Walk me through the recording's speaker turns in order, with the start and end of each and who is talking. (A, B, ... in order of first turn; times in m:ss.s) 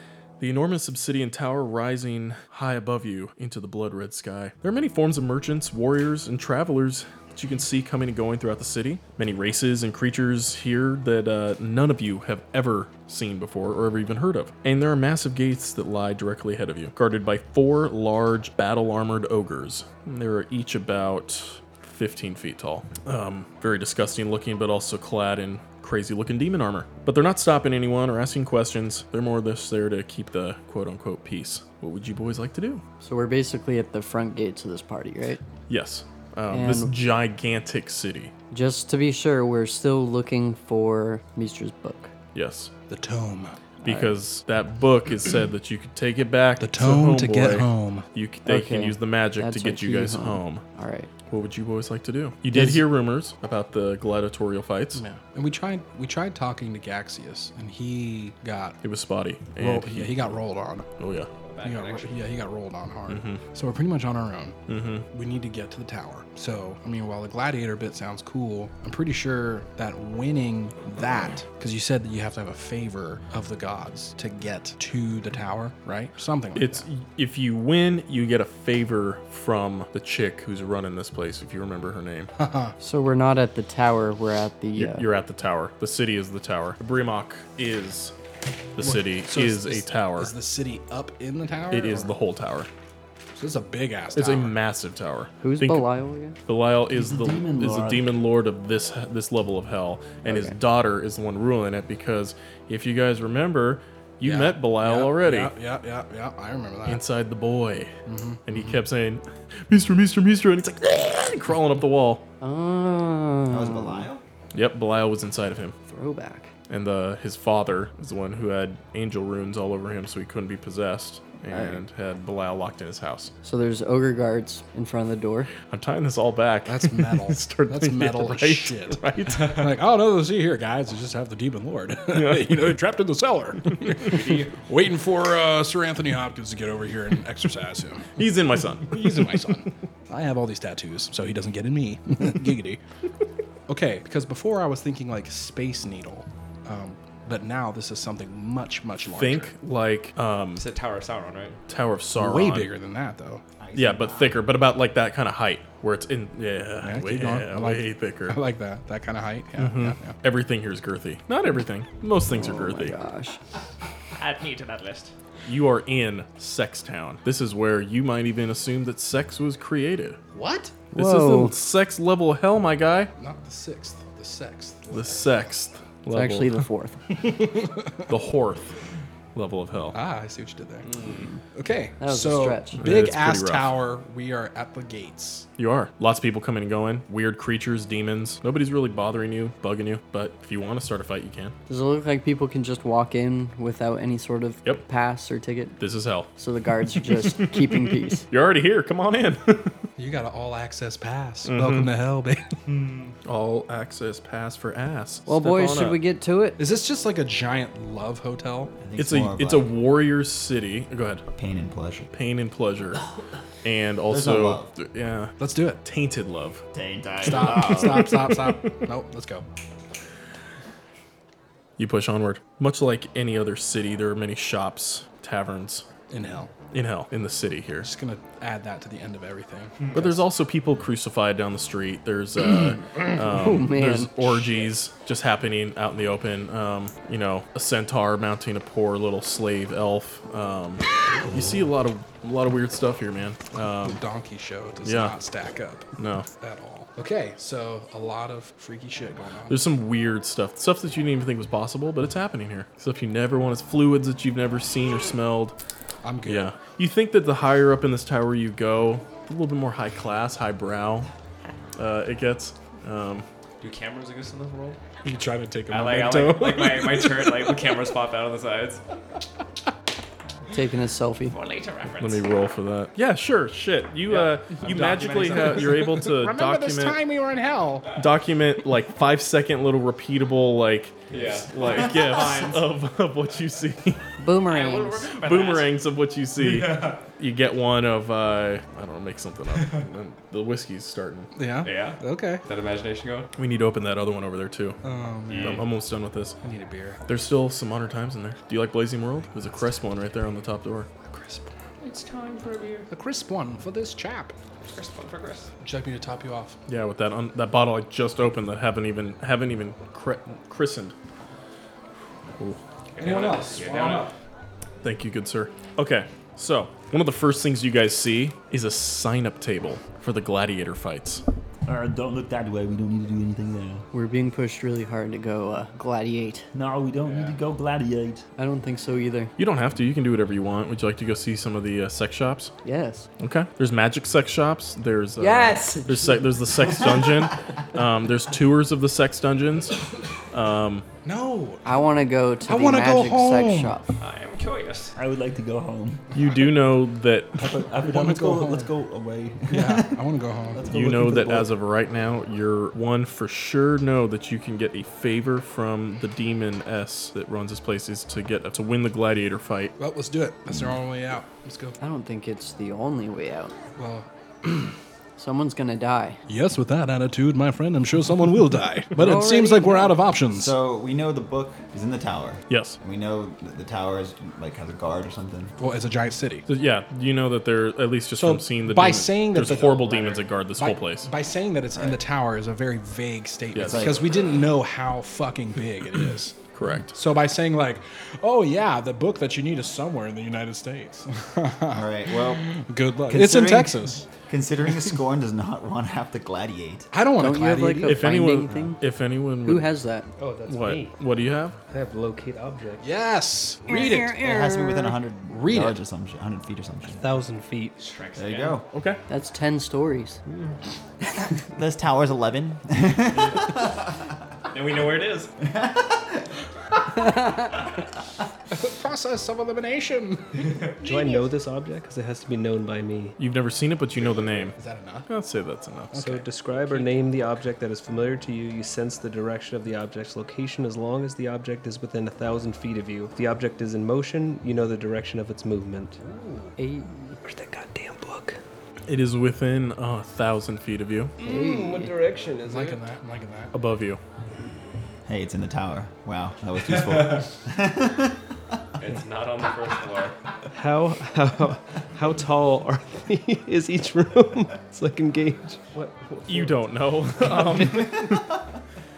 0:00.4-0:32.8 A
0:33.0-0:35.4 B
0:35.7-0:38.3 A
0:36.5-0:36.9 B
0:38.5-0:42.1 B
0:42.3-0:42.7 A
0:42.9-0:43.6 C
0:43.8-0:50.6 A
0:43.8-0:44.1 B
0:46.6-0:48.0 C
0:48.4-0:51.1 B
0:51.3-0:55.0 A
0:52.5-0:52.8 C
0:54.9-0:58.8 C
0:58.8-1:00.4 A
0:59.6-1:00.9 C
1:01.0-1:01.3 A
1:01.4-1:02.4 D
1:01.6-1:04.6 C
1:03.1-1:03.4 A
1:04.7-1:05.0 A
1:05.1-1:16.8 C
1:16.5-1:22.3 A
1:22.4-1:22.7 C
1:22.8-1:25.0 B
1:24.8-1:28.1 A
1:28.8-1:30.3 A
1:28.8-1:32.2 C
1:31.7-1:32.7 A
1:33.3-1:34.6 C
1:34.1-1:35.9 A
1:35.4-1:36.4 B
1:36.4-1:45.5 A
1:36.9-1:38.2 E
1:40.2-1:40.6 B
1:44.2-1:47.0 C
1:46.8-1:47.9 A
1:48.1-1:48.8 C
1:48.4-1:52.2 A
1:52.4-1:54.1 B
1:53.5-1:54.2 F
1:54.5-1:55.7 A
1:55.9-1:56.5 B
1:56.7-2:03.3 A
2:01.5-2:01.8 B
2:03.4-2:05.5 B
2:05.7-2:09.6 A
2:06.7-2:18.1 C
2:12.1-2:12.7 A
2:14.0-2:14.6 D
2:18.2-2:19.2 A
2:18.8-2:22.8 C
2:23.7-2:29.5 C
2:29.0-2:30.6 A
2:30.6-2:31.6 D
2:31.7-2:32.7 A
2:32.2-2:33.4 C
2:33.6-2:34.4 F
2:33.7-2:38.4 A
2:36.8-2:40.2 C
2:39.6-2:43.0 A
2:42.3-2:43.4 B
2:44.2-2:45.1 D
2:45.4-2:50.2 A
2:50.3-2:50.8 C
2:50.9-2:51.6 B
2:51.0-2:53.1 A
2:53.2-2:55.5 C
2:54.9-2:56.6 A
2:56.1-2:57.0 B
2:57.1-2:58.0 C
2:58.1-2:58.7 A
2:59.3-3:00.0 A
2:59.9-3:00.9 C
3:00.8-3:01.3 D
3:01.1-3:01.4 B
3:01.5-3:05.5 C
3:02.0-3:02.8 B
3:02.8-3:03.7 A
3:05.6-3:11.5 A
3:11.7-3:15.8 B
3:15.8-3:16.3 A
3:16.4-3:18.2 B
3:17.0-3:19.8 A
3:20.0-3:22.6 C
3:21.5-3:21.9 A
3:22.6-3:23.1 D
3:23.2-3:26.0 A
3:25.3-3:26.6 B
3:26.6-3:28.7 C
3:28.8-3:29.7 F
3:29.0-3:31.2 A
3:31.3-3:32.1 F
3:32.1-3:33.0 A
3:33.6-3:36.6 A
3:34.1-3:34.7 F
3:35.4-3:35.8 C
3:36.7-3:38.1 F
3:37.2-3:39.4 C
3:37.3-3:38.6 A
3:41.8-3:45.8 A
3:46.1-3:46.5 C
3:46.7-3:47.9 A
3:47.8-3:50.1 C
3:49.9-4:04.0 A
3:53.0-3:54.2 B
3:54.4-3:54.7 D
4:03.8-4:09.6 C
4:04.8-4:05.2 A
4:06.0-4:06.3 A
4:09.5-4:15.6 A
4:16.0-4:16.5 C
4:16.2-4:21.1 A
4:21.8-4:23.2 A
4:23.6-4:24.8 D
4:25.0-4:27.8 C
4:25.7-4:28.8 D
4:30.5-4:31.4 B
4:31.3-4:32.3 D
4:32.0-4:37.0 A
4:34.0-4:35.9 D
4:34.7-4:37.9 C
4:38.0-4:44.0 A
4:41.1-4:42.7 D
4:44.2-4:45.2 B
4:44.5-4:45.7 D
4:45.2-4:51.3 A
4:46.4-4:47.0 D
4:49.6-4:49.8 D
4:51.3-4:52.4 C
4:51.6-4:53.3 D
4:53.4-4:54.8 A
4:54.8-4:55.6 C
4:55.3-4:55.6 D
4:55.4-4:56.4 A
4:56.4-4:57.0 C
4:57.1-5:00.9 A
5:01.0-5:01.5 C
5:01.8-5:02.9 D
5:02.9-5:04.3 C
5:04.6-5:05.5 D
5:05.6-5:06.6 C
5:06.7-5:10.9 A
5:12.9-5:14.1 D
5:13.0-5:14.1 C
5:14.8-5:21.2 A
5:21.6-5:23.8 E
5:23.9-5:26.5 B
5:26.5-5:28.2 E
5:27.0-5:27.4 D
5:28.4-5:29.3 B
5:29.4-5:32.5 A
5:32.6-5:33.1 B
5:33.2-5:40.8 A
5:35.2-5:36.2 B
5:41.0-5:41.7 C
5:41.6-5:43.9 B
5:42.4-5:43.8 C
5:44.0-5:44.9 D
5:45.0-5:46.1 E
5:46.1-5:47.4 A
5:47.4-5:51.5 E
5:47.4-5:48.7 C
5:49.5-5:50.7 C
5:50.7-5:59.7 A
5:59.8-6:01.8 C
6:01.8-6:03.5 B
6:03.8-6:04.7 C
6:05.2-6:06.2 B
6:06.3-6:10.5 C
6:09.0-6:10.0 B
6:10.3-6:15.5 F
6:12.5-6:12.8 A
6:15.6-6:16.4 C
6:16.5-6:21.1 A
6:18.2-6:34.1 C
6:21.7-6:22.0 F
6:23.5-6:23.9 A
6:23.6-6:24.3 F
6:26.5-6:26.9 A
6:31.7-6:32.5 F
6:33.1-6:36.9 F
6:36.9-6:38.2 C
6:37.2-6:38.8 B
6:37.8-6:39.7 A
6:39.4-6:40.1 B
6:40.2-6:41.0 G
6:40.5-6:41.6 A
6:41.7-6:42.8 G
6:42.8-6:44.2 C
6:43.7-6:45.0 B
6:43.9-6:47.0 F
6:45.3-6:45.8 C
6:46.8-6:47.8 G
6:47.8-6:48.6 D
6:48.2-6:48.6 F
6:48.7-6:49.0 A
6:49.1-6:50.2 B
6:51.5-6:53.8 F
6:53.1-6:53.6 D
6:54.5-6:55.3 D
6:55.5-6:56.2 F
6:58.5-7:01.2 C
7:00.8-7:03.2 G
7:03.2-7:04.6 A
7:04.0-7:04.5 D
7:04.6-7:05.1 C
7:05.1-7:06.2 A
7:05.9-7:06.9 C
7:06.0-7:16.5 G
7:16.6-7:17.1 B
7:17.2-7:18.4 G
7:18.9-7:21.1 A
7:21.2-7:22.8 G
7:21.2-7:21.9 B
7:22.4-7:23.5 C
7:23.5-7:24.0 A
7:25.0-7:28.2 F
7:26.8-7:27.2 D
7:28.8-7:30.2 D
7:30.5-7:36.7 G
7:36.3-7:38.3 A
7:37.4-7:37.9 G